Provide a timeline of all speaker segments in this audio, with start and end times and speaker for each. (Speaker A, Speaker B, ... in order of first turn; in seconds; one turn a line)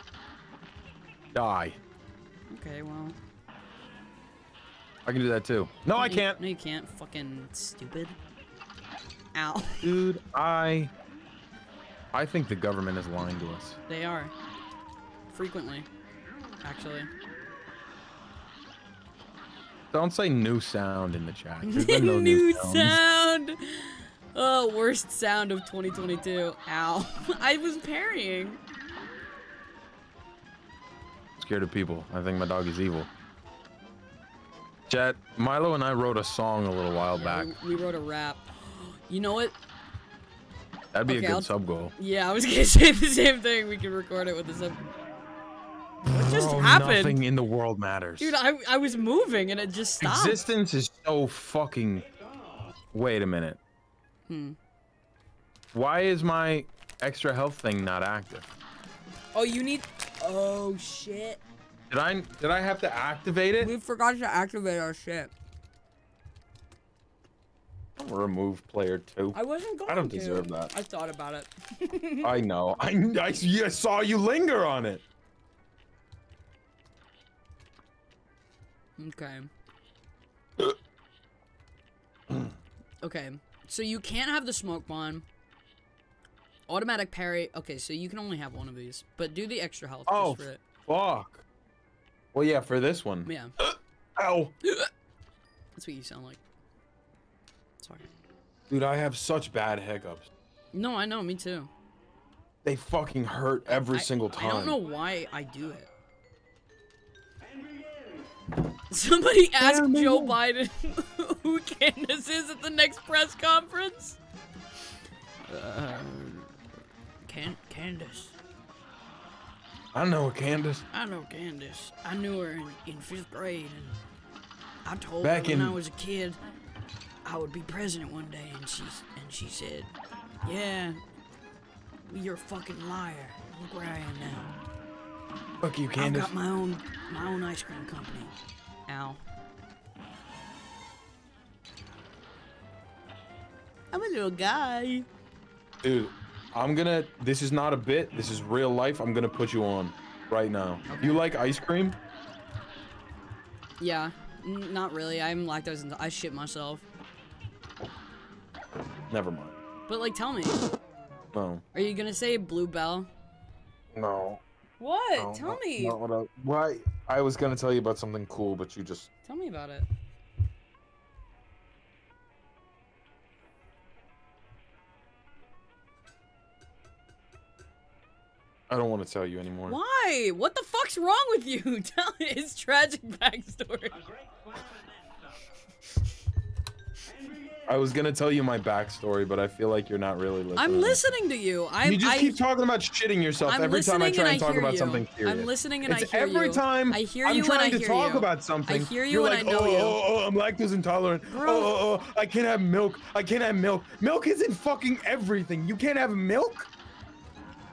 Speaker A: 1.3-1.8
Speaker B: 2.5-3.1
Speaker A: 5.0-6.4
Speaker B: 6.0-8.2
Speaker B: 9.3-9.8
Speaker A: 9.8-10.9
Speaker A: 12.1-13.8
Speaker B: 13.9-14.3
Speaker B: 15.3-15.9
Speaker B: 16.6-17.1
Speaker A: 19.9-23.0
Speaker B: 21.6-28.6
Speaker A: 31.4-33.1
Speaker A: 34.9-37.5
Speaker B: 37.1-39.5
Speaker A: 40.9-41.9
Speaker B: 41.0-44.8
Speaker A: 46.0-48.4
Speaker B: 46.1-47.2
Speaker B: 48.2-50.4
Speaker A: 50.0-52.1
Speaker A: 52.9-53.6
Speaker B: 54.3-54.6
Speaker A: 55.7-58.5
Speaker B: 59.3-61.4
Speaker A: 61.9-63.7
Speaker B: 63.6-65.3
Speaker A: 68.0-70.7
Speaker B: 69.3-72.3
Speaker A: 72.2-75.0
Speaker B: 79.0-79.5
Speaker A: 82.3-82.5
Speaker B: 83.0-85.2
Speaker B: 86.7-90.6
Speaker A: 90.1-91.4
Speaker A: 92.3-94.5
Speaker B: 93.2-93.5
Speaker B: 94.6-94.9
Speaker B: 95.7-96.4
Speaker B: 97.8-98.1
Speaker A: 98.7-100.3
Speaker B: 100.7-101.7
Speaker A: 102.6-104.8
Speaker B: 103.9-105.9
Speaker B: 108.9-114.2
Speaker A: 109.6-110.3
Speaker B: 115.5-116.5
Speaker B: 117.2-118.3
Speaker A: 119.9-120.8
Speaker B: 120.9-124.0
Speaker B: 124.8-126.4
Speaker A: 125.2-125.8
Speaker B: 127.2-131.0
Speaker B: 132.1-134.5
Speaker A: 135.6-136.3
Speaker B: 136.0-138.3
Speaker B: 138.9-139.2
Speaker B: 143.9-145.1
Speaker A: 145.8-152.0
Speaker B: 150.9-151.2
Speaker B: 153.8-156.8
Speaker A: 159.1-159.6
Speaker B: 159.9-160.7
Speaker A: 161.3-161.6
Speaker B: 161.7-163.1
Speaker A: 163.9-164.4
Speaker B: 164.8-166.0
Speaker A: 165.2-169.1
Speaker B: 169.2-169.8
Speaker A: 178.7-179.8
Speaker B: 179.7-184.0
Speaker A: 187.7-191.0
Speaker B: 190.6-192.4
Speaker A: 191.8-206.7
Speaker B: 193.4-200.0
Speaker B: 201.3-201.8